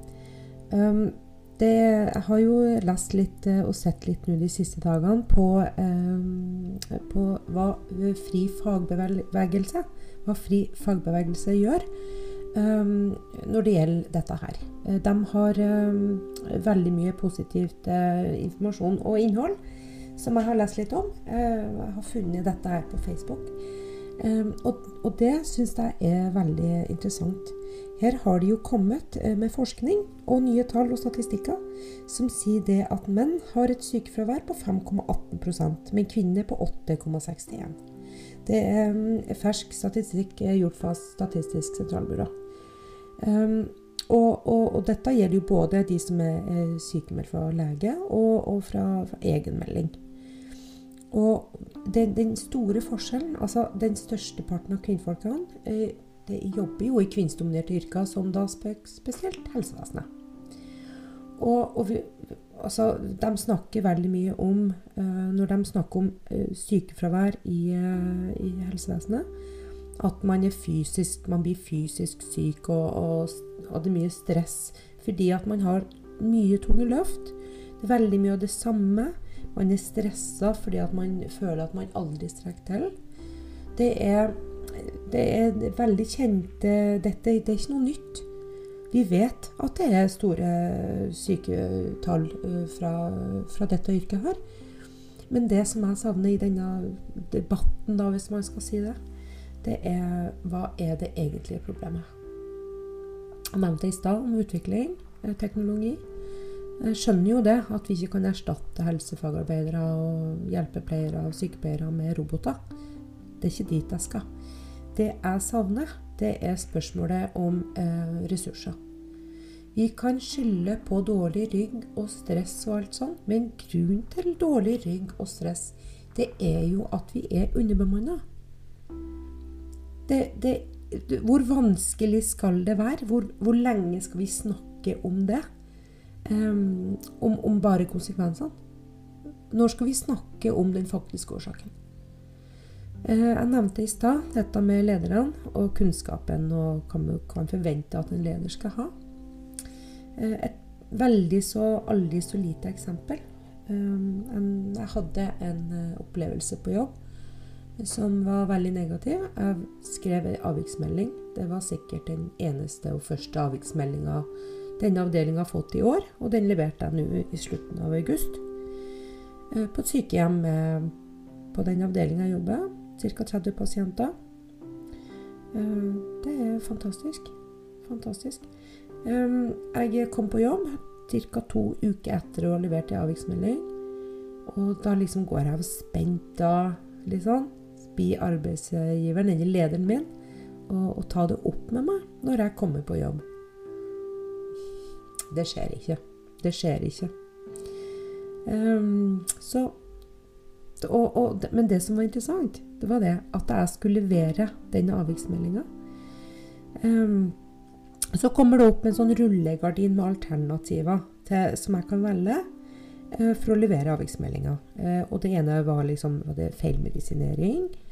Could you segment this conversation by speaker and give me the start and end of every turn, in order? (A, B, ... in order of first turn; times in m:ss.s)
0:00.7-0:11.9 A
0:12.5-0:19.6 A
0:20.2-0:23.5 A
0:24.2-0:37.8 A
0:38.4-0:42.3 A
0:43.2-0:50.0 A
0:51.1-1:00.1 A
1:01.4-1:09.3 A
1:10.0-1:22.9 A
1:23.8-1:28.3 A
1:28.9-1:34.4 A
1:35.3-1:39.0 A
1:39.6-1:42.1 A
1:43.5-1:46.0 A
1:46.8-1:52.6 A
1:53.4-1:54.3 A
1:54.9-1:58.8 A
1:59.7-2:08.2 A
2:10.1-2:15.4 A
2:16.3-2:18.6 A
2:19.5-2:21.7 A
2:23.0-2:28.9 A
2:30.2-2:36.9 A
2:37.8-2:48.4 A
2:49.5-2:50.9 A
2:51.5-2:54.1 A
2:55.5-2:58.5 A
2:59.0-3:03.7 A
3:04.5-3:10.1 A
3:10.7-3:13.2 A
3:15.3-3:17.1 A
3:18.4-3:19.8 A
3:20.8-3:25.7 A
3:26.8-3:27.4 A
3:28.1-3:32.4 A
3:33.1-3:37.7 A